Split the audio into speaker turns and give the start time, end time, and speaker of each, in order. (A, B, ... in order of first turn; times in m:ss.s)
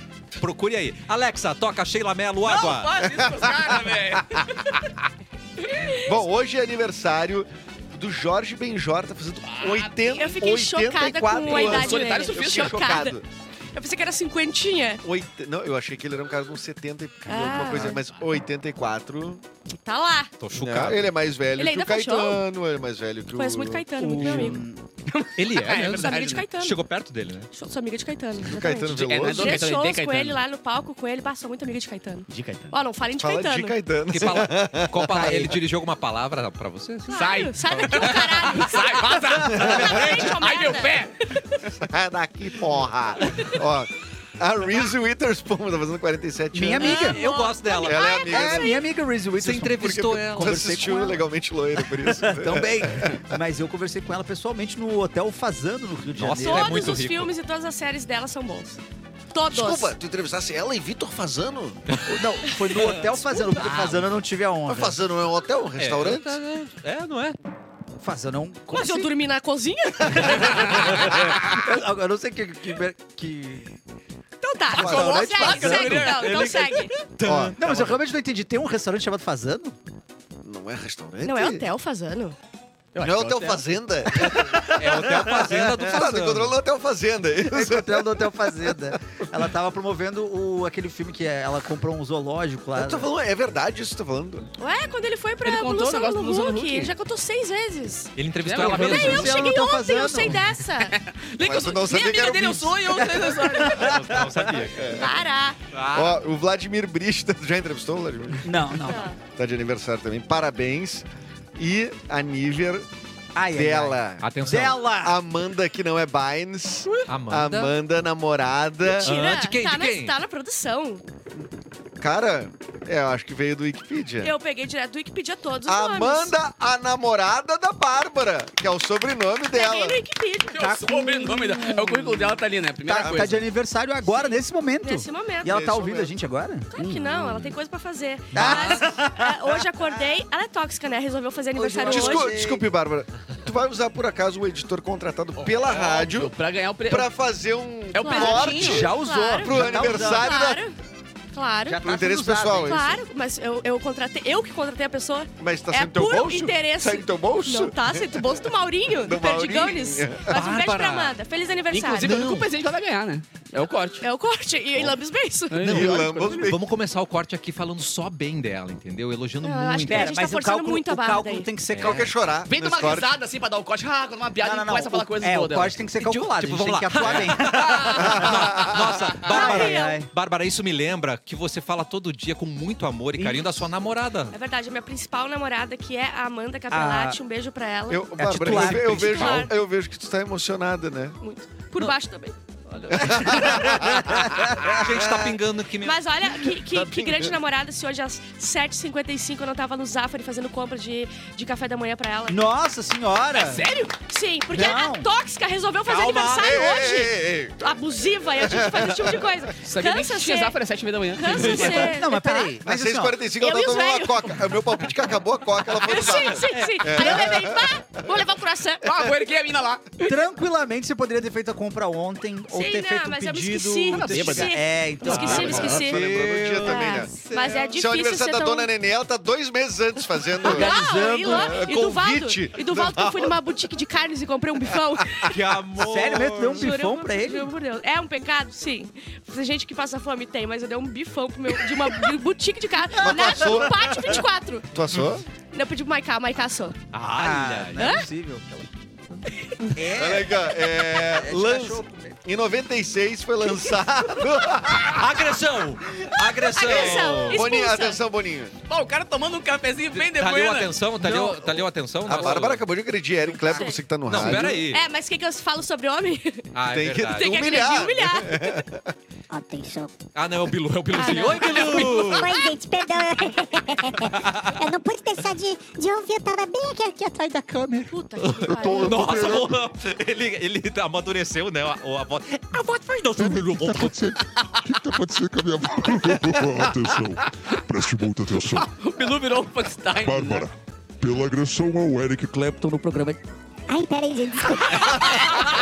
0:00.4-0:02.9 A
0:02.4-0:04.8 B
0:03.0-0:04.6 C
0:05.6-0:06.1 D
0:06.0-0:13.2 C
0:09.5-0:09.9 B
0:10.0-0:13.2 D
0:11.4-0:13.0 B
0:13.7-0:15.0 D
0:15.0-0:19.4 C
0:17.2-0:18.0 D
0:19.7-0:20.3 D
0:20.4-0:21.1 A
0:20.6-0:24.6 C
0:21.6-0:22.4 D
0:23.3-0:24.6 D
0:24.0-0:24.8 E
0:25.1-0:26.4 B
0:25.4-0:27.5 A
0:25.8-0:26.8 D
0:27.5-0:33.8 D
0:28.4-0:29.6 C
0:28.9-0:30.4 B
0:32.3-0:32.7 B
0:33.2-0:35.5 C
0:34.1-0:38.6 A
0:37.1-0:41.5 D
0:37.1-0:41.1 B
0:39.5-0:40.2 C
0:39.5-0:40.4 A
0:41.7-0:47.2 C
0:46.5-0:47.2 E
0:46.8-0:48.8 D
0:46.8-0:48.2 A
0:47.8-0:48.8 C
0:48.3-0:56.7 E
0:49.4-0:50.7 A
0:49.6-0:53.2 C
0:56.1-0:57.3 A
0:56.4-0:58.8 D
0:59.3-1:00.0 D
0:59.5-1:01.8 C
1:02.0-1:05.0 E
1:03.6-1:04.0 A
1:04.7-1:06.4 C
1:05.8-1:07.4 A
1:08.0-1:09.1 E
1:08.7-1:11.2 D
1:10.1-1:13.8 E
1:14.4-1:17.1 D
1:14.7-1:15.9 C
1:14.7-1:16.6 B
1:14.9-1:16.1 E
1:16.0-1:18.0 A
1:17.2-1:17.6 C
1:17.6-1:19.8 E
1:20.4-1:21.7 C
1:21.2-1:22.4 D
1:22.9-1:23.6 B
1:23.0-1:28.7 C
1:24.1-1:25.8 E
1:24.6-1:26.6 A
1:27.5-1:33.1 E
1:32.8-1:34.5 C
1:34.6-1:38.1 D
1:35.4-1:36.9 B
1:38.2-1:39.5 A
1:38.4-1:39.2 B
1:38.6-1:40.4 E
1:38.6-1:41.0 D
1:40.9-1:43.9 B
1:41.4-1:43.1 C
1:42.9-1:44.7 E
1:43.7-1:45.0 A
1:44.8-1:45.2 C
1:45.0-1:45.6 D
1:45.7-1:46.2 A
1:45.9-1:51.0 C
1:48.4-1:49.1 E
1:48.9-1:49.2 D
1:51.6-1:52.9 C
1:53.3-1:55.2 E
1:53.5-1:54.2 C
1:54.2-1:54.8 A
1:55.0-1:59.1 C
1:57.1-1:57.7 A
1:58.9-2:01.0 D
1:59.0-2:00.2 A
2:02.0-2:04.3 C
2:04.2-2:06.3 D
2:05.7-2:10.0 C
2:09.5-2:10.8 D
2:10.5-2:13.4 B
2:10.6-2:16.7 E
2:13.0-2:13.4 C
2:14.1-2:15.6 D
2:15.4-2:16.1 C
2:16.7-2:22.3 D
2:16.8-2:17.5 B
2:18.3-2:20.0 E
2:18.3-2:18.8 C
2:21.6-2:22.6 E
2:21.8-2:26.3 C
2:25.4-2:27.1 B
2:26.9-2:30.6 C
2:27.9-2:28.9 B
2:28.0-2:30.8 D
2:28.2-2:30.3 E
2:31.3-2:31.8 D
2:31.7-2:32.9 E
2:31.8-2:33.0 C
2:32.6-2:42.3 D
2:35.4-2:38.4 C
2:39.0-2:40.4 C
2:40.3-2:41.2 A
2:41.7-2:44.0 B
2:42.0-2:42.4 A
2:44.0-2:45.7 D
2:45.5-2:46.4 B
2:45.6-2:50.2 A
2:45.6-2:46.6 C
2:49.4-2:51.5 D
2:49.9-2:52.1 E
2:51.7-2:52.1 A
2:51.8-2:53.2 C
2:52.4-2:55.8 B
2:54.4-2:58.4 E
2:56.0-3:04.3 A
2:57.3-2:58.1 B
2:58.0-2:58.8 C
2:59.2-3:00.0 D
2:59.2-3:00.1 E
3:03.2-3:03.7 E
3:04.3-3:08.1 D
3:06.7-3:07.2 E
3:07.9-3:11.2 C
3:08.2-3:09.5 E
3:08.4-3:09.5 A
3:08.8-3:09.5 D
3:11.2-3:12.3 D
3:12.7-3:16.0 A
3:13.0-3:15.3 C
3:13.1-3:14.8 E
3:15.8-3:22.4 D
3:16.7-3:17.4 C
3:22.3-3:23.6 E
3:23.3-3:23.9 B
3:24.0-3:30.5 D
3:24.5-3:25.1 E
3:25.8-3:26.5 A
3:26.3-3:27.6 C
3:28.4-3:29.2 C
3:29.6-3:31.9 B
3:31.2-3:32.5 D
3:31.4-3:33.2 E
3:32.6-3:38.2 C
3:33.4-3:34.4 D
3:35.8-3:38.8 D
3:38.8-3:40.1 B
3:40.0-3:45.8 E
3:42.5-3:46.0 D
3:43.9-3:45.7 B
3:45.0-3:47.8 A
3:45.2-3:47.1 C
3:46.6-3:48.7 D
3:47.7-3:53.4 C
3:50.4-3:55.4 D
3:50.4-3:51.6 E
3:55.0-3:55.3 C
3:55.3-3:56.7 A
3:55.8-3:57.5 E
3:56.4-4:04.7 D
4:03.0-4:05.2 C
4:05.5-4:06.8 D
4:06.9-4:07.9 A
4:07.1-4:08.7 E
4:07.8-4:08.0 D
4:09.7-4:12.2 E
4:09.9-4:15.4 C
4:14.9-4:17.4 A
4:16.5-4:18.0 D
4:16.6-4:18.5 C
4:18.7-4:20.7 B
4:19.9-4:22.7 A
4:21.0-4:21.4 E
4:22.0-4:24.6 C
4:23.4-4:26.5 D
4:24.0-4:24.8 A
4:26.5-4:27.3 A
4:26.7-4:28.9 C
4:27.2-4:28.6 D
4:29.3-4:29.9 F
4:30.1-4:32.3 A
4:30.9-4:32.5 D
4:31.1-4:37.7 F
4:34.0-4:34.6 A
4:37.5-4:37.8 E
4:37.9-4:39.4 D
4:38.2-4:44.2 A
4:38.4-4:39.5 G
4:43.2-4:48.7 G
4:48.5-4:50.4 B
4:49.9-4:52.5 G
4:52.5-4:53.2 E
4:53.7-4:55.4 F